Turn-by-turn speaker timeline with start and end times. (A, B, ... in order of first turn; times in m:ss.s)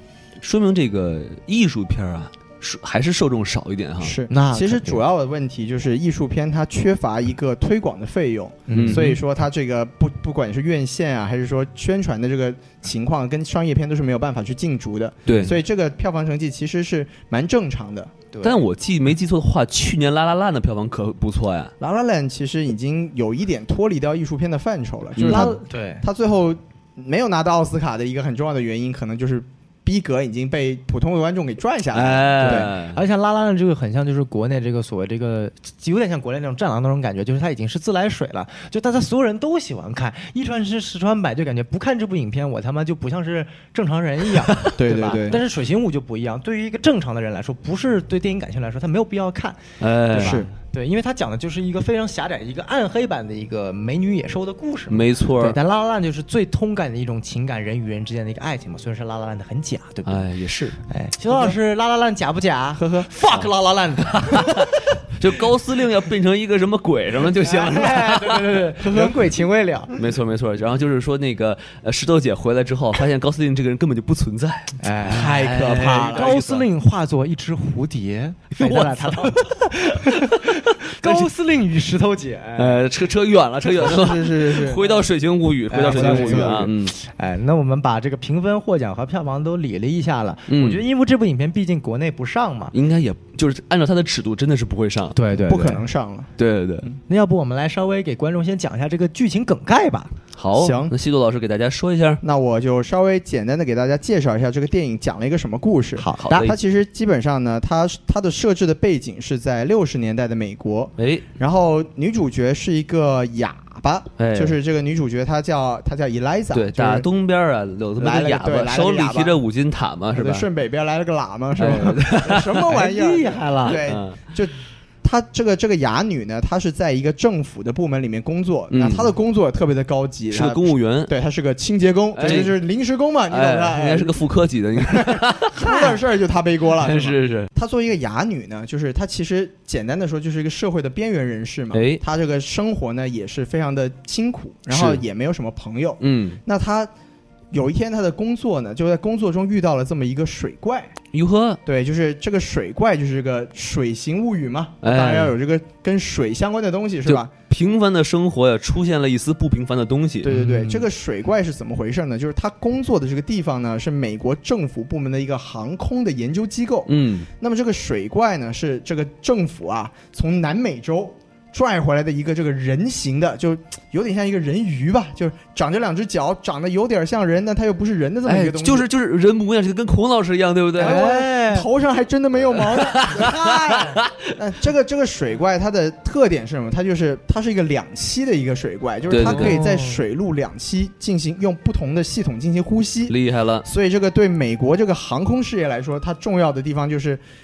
0:00.4-0:04.2 A
0:04.0-0:18.1 B
0:04.3-0:05.0 C
0:08.7-0:09.1 C
0:08.7-0:09.2 A
0:15.2-0:15.6 A
0:18.3-0:18.6 C
0:18.4-0:21.7 A
0:21.8-0:32.7 B
0:25.2-0:25.5 A
0:25.2-0:26.0 C
0:31.9-0:33.0 A
0:32.4-1:00.2 C
0:44.8-0:45.4 B
0:49.8-0:50.4 A
0:50.1-0:50.5 B
0:54.9-0:55.6 A
1:00.1-1:00.8 A
1:00.9-1:05.0 C
1:02.8-1:03.1 B
1:04.0-1:08.7 A
1:07.4-1:09.9 C
1:08.8-1:09.2 B
1:10.0-1:16.6 A
1:14.8-1:22.8 C
1:15.0-1:16.6 B
1:18.6-1:20.5 A
1:21.0-1:21.3 A
1:22.6-1:26.9 A
1:23.8-1:25.0 B
1:25.7-1:32.7 C
1:25.9-1:26.7 B
1:30.5-1:30.8 A
1:32.7-1:35.1 A
1:35.1-1:35.8 C
1:35.4-1:36.3 B
1:36.4-1:36.9 A
1:37.1-1:40.1 C
1:40.4-1:42.2 A
1:40.6-1:40.9 B
1:42.2-1:57.1 B
1:46.0-1:46.5 C
1:46.2-1:46.5 A
1:51.0-1:51.2 A
1:54.2-1:54.6 A
1:56.5-2:00.5 A
1:58.0-1:59.4 B
2:00.1-2:14.2 B
2:01.6-2:02.6 A
2:01.6-2:01.9 C
2:02.6-2:03.8 C
2:03.7-2:04.2 A
2:08.7-2:09.1 A
2:10.3-2:11.1 A
2:12.2-2:12.6 A
2:13.3-2:15.9 A
2:14.8-2:26.9 B
2:16.8-2:17.5 A
2:21.7-2:22.0 A
2:24.7-2:25.0 A
2:26.0-2:26.4 A
2:27.5-2:30.9 B
2:31.1-2:31.6 A
2:31.6-2:37.3 B
2:34.8-2:35.3 A
2:37.1-2:40.3 A
2:40.2-2:58.9 B
2:40.3-2:40.8 C
2:46.9-2:47.3 A
2:58.2-3:01.0 A
3:00.8-3:03.6 B
3:00.8-3:01.7 C
3:02.7-3:04.3 A
3:03.0-3:04.0 C
3:04.3-3:17.2 B
3:09.1-3:09.6 A
3:09.2-3:10.0 C
3:13.1-3:13.6 A